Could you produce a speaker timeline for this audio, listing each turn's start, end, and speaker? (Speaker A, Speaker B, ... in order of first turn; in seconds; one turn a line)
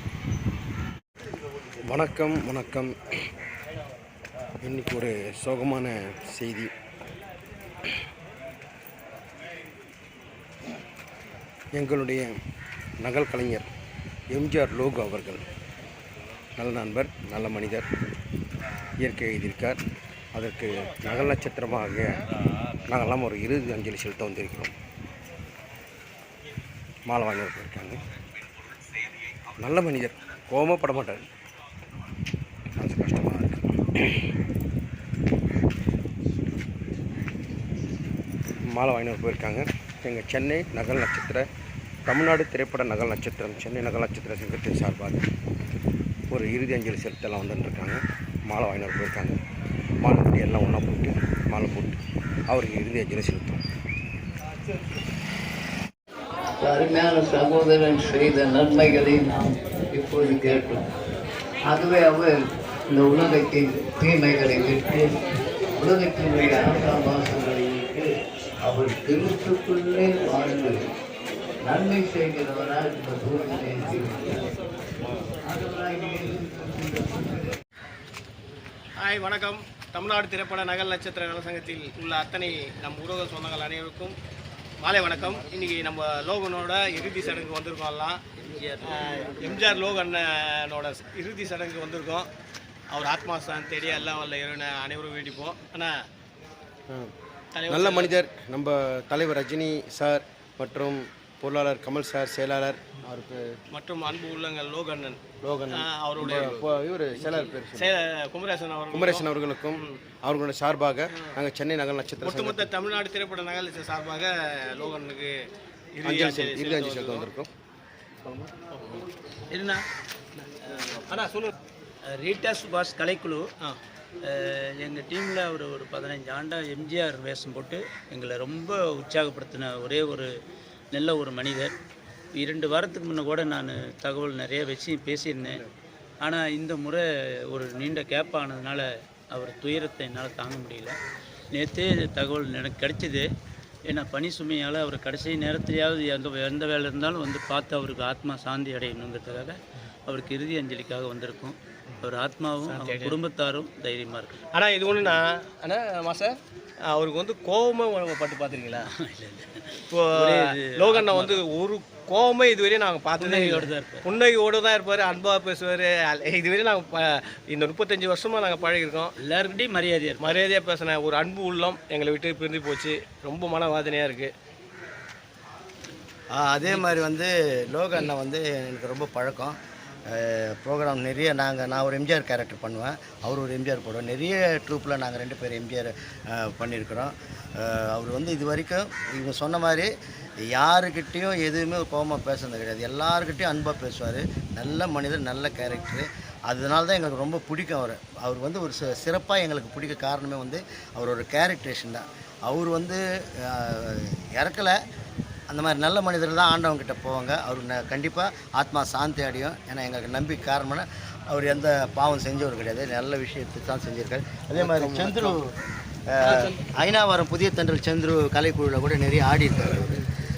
Speaker A: 1.9-3.0
Speaker A: 4.6-6.7
Speaker A: 11.7-12.3
Speaker A: 13.0-13.7
Speaker A: 14.3-15.5
Speaker A: 16.6-17.9
Speaker A: 19.0-19.8
Speaker A: 20.3-22.3
Speaker A: 22.9-24.7
Speaker A: 27.1-28.0
Speaker A: 29.6-31.3
Speaker A: 32.8-34.3
Speaker A: 38.7-41.5
Speaker A: 42.1-45.3
Speaker A: 46.3-49.4
Speaker A: 50.0-53.6
Speaker B: 56.6-60.9
Speaker B: 61.6-65.2
Speaker B: 65.8-70.8
Speaker B: 71.6-74.5
Speaker B: 75.4-77.4
Speaker C: 79.0-84.2
Speaker C: 84.8-88.2
Speaker D: 88.4-89.6
Speaker C: 88.9-92.3
Speaker C: 92.9-96.0
Speaker C: 97.5-98.1
Speaker A: 97.7-103.4
Speaker C: 103.7-106.6
Speaker A: 105.4-107.9
Speaker C: 107.8-109.2
Speaker A: 108.9-112.7
Speaker C: 112.2-115.3
Speaker C: 116.0-117.3
Speaker A: 116.0-117.5
Speaker C: 118.7-119.0
Speaker D: 119.5-119.8
Speaker D: 120.7-121.2
Speaker C: 121.1-121.5
Speaker D: 122.1-123.5
Speaker D: 124.2-130.3
Speaker D: 130.9-131.7
Speaker D: 132.3-135.6
Speaker D: 136.2-141.0
Speaker D: 141.5-143.3
Speaker D: 143.9-154.4
Speaker C: 152.7-153.2
Speaker C: 154.5-156.4
Speaker C: 156.9-158.9
Speaker D: 158.9-161.4
Speaker C: 159.9-169.1
Speaker D: 163.2-164.1
Speaker D: 169.2-170.3
Speaker C: 170.2-174.3
Speaker E: 176.3-179.5
Speaker E: 180.1-189.9
Speaker E: 190.5-204.8
Speaker E: 205.5-215.4
Speaker A: 214.6-215.4
Speaker E: 216.1-220.1